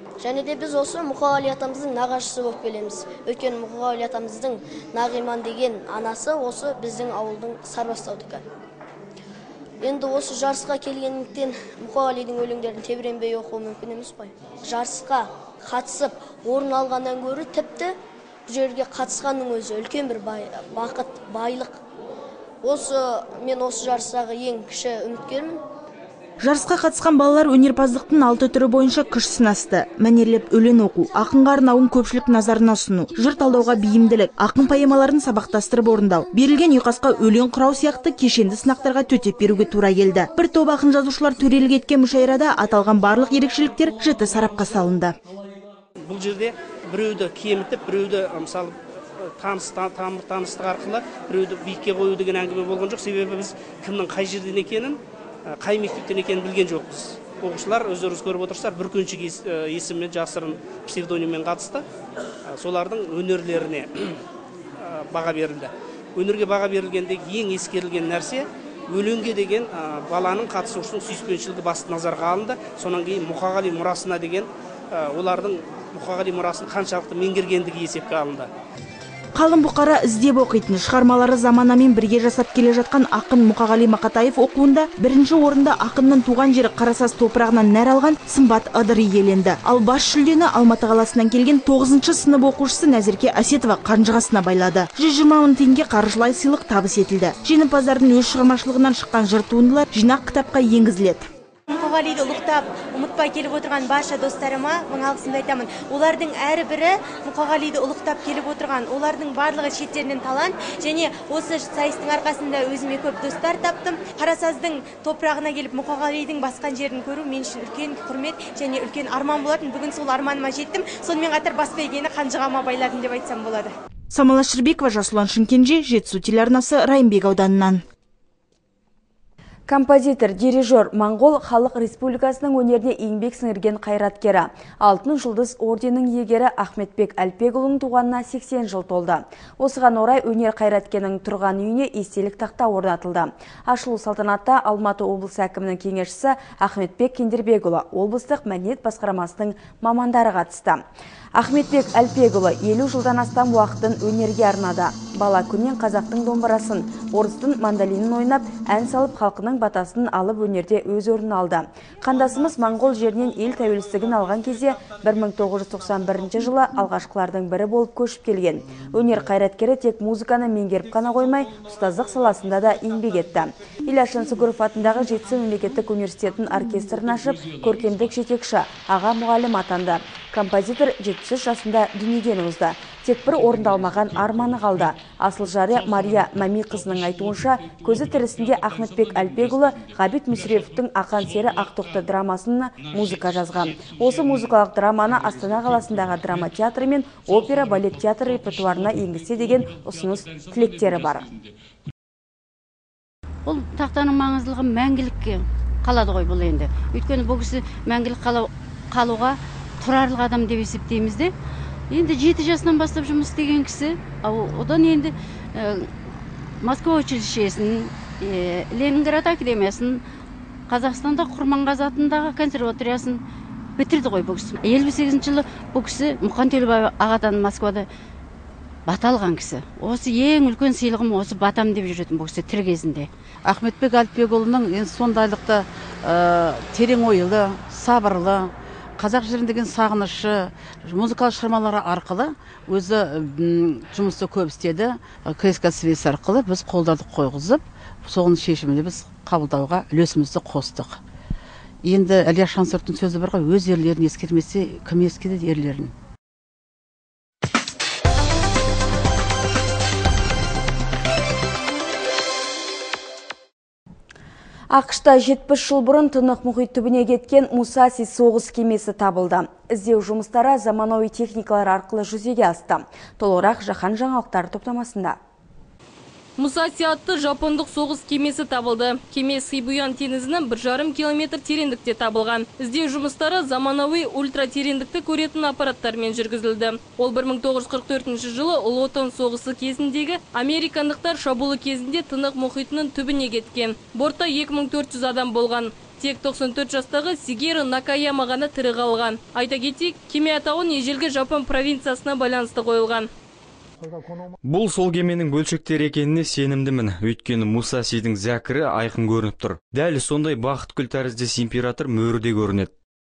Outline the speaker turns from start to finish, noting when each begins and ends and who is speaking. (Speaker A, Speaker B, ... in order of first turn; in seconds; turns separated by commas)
Speaker A: 0.2-8.4, Speaker A: 9.8-17.9, Speaker A: 18.5-21.8, Speaker A: 22.6-25.6, Speaker B: 26.4-45.1, Speaker C: 46.0-61.8, Speaker C: 62.5-64.2, Speaker C: 64.8-78.5, Speaker B: 79.4-101.3, Speaker D: 101.7-123.7, Speaker B: 124.1-127.8, Speaker E: 129.7-150.8, Speaker E: 151.4-201.3, Speaker F: 203.4-211.3, Speaker F: 211.9-216.0, Speaker F: 216.6-220.0, Speaker F: 220.7-223.2, Speaker F: 223.8-227.9, Speaker F: 228.9-233.1, Speaker G: 233.5-251.0, Speaker G: 251.8-255.9, Speaker E: 264.7-275.2, Speaker H: 276.4-303.1, Speaker I: 304.4-312.7